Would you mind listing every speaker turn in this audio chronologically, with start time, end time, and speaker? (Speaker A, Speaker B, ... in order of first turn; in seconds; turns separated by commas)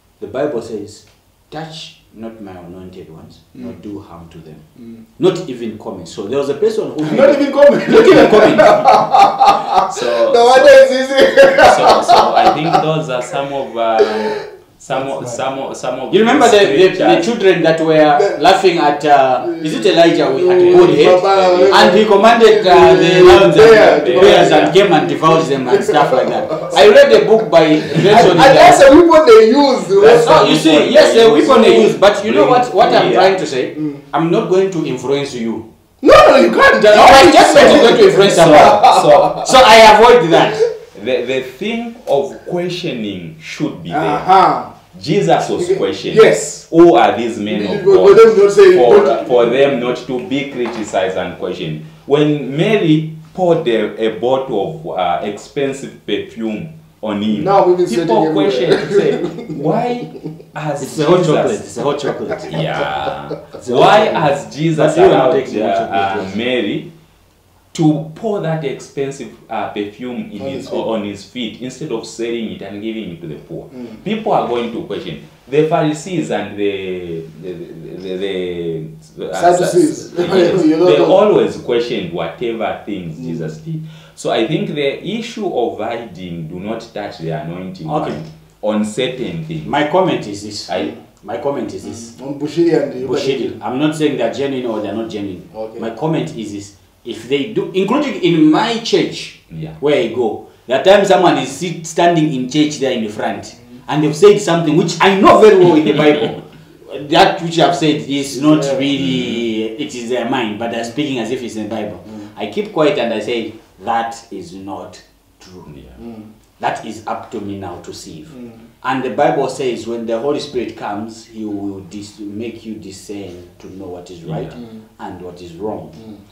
Speaker A: 0.2-4.7, Speaker A: 5.2-9.0, Speaker B: 7.0-12.8, Speaker C: 9.5-10.9, Speaker C: 11.4-17.3, Speaker B: 14.0-14.4, Speaker A: 16.1-28.8, Speaker B: 18.1-18.4, Speaker B: 19.4-26.9, Speaker C: 20.5-21.9, Speaker C: 23.4-24.7, Speaker C: 27.9-28.3, Speaker B: 28.0-30.5, Speaker C: 29.9-33.4, Speaker A: 30.1-35.7, Speaker B: 33.8-34.0, Speaker B: 36.0-39.5, Speaker A: 36.9-40.6, Speaker C: 37.5-39.6, Speaker C: 40.9-44.3, Speaker B: 43.9-44.7, Speaker C: 44.9-61.7, Speaker B: 45.6-46.6, Speaker B: 47.5-49.7, Speaker B: 57.3-59.7, Speaker A: 60.8-62.6, Speaker C: 62.4-66.9, Speaker A: 63.6-66.3, Speaker C: 67.7-89.7, Speaker B: 70.4-70.9, Speaker B: 79.3-81.2, Speaker A: 87.9-88.2, Speaker A: 89.7-92.2, Speaker B: 91.9-93.6, Speaker A: 93.0-115.7, Speaker B: 95.5-95.9, Speaker C: 99.5-99.8, Speaker B: 108.3-108.9, Speaker C: 109.0-109.5, Speaker C: 115.7-116.0, Speaker B: 116.0-116.3, Speaker A: 116.6-126.0, Speaker B: 118.4-118.6, Speaker C: 124.2-124.6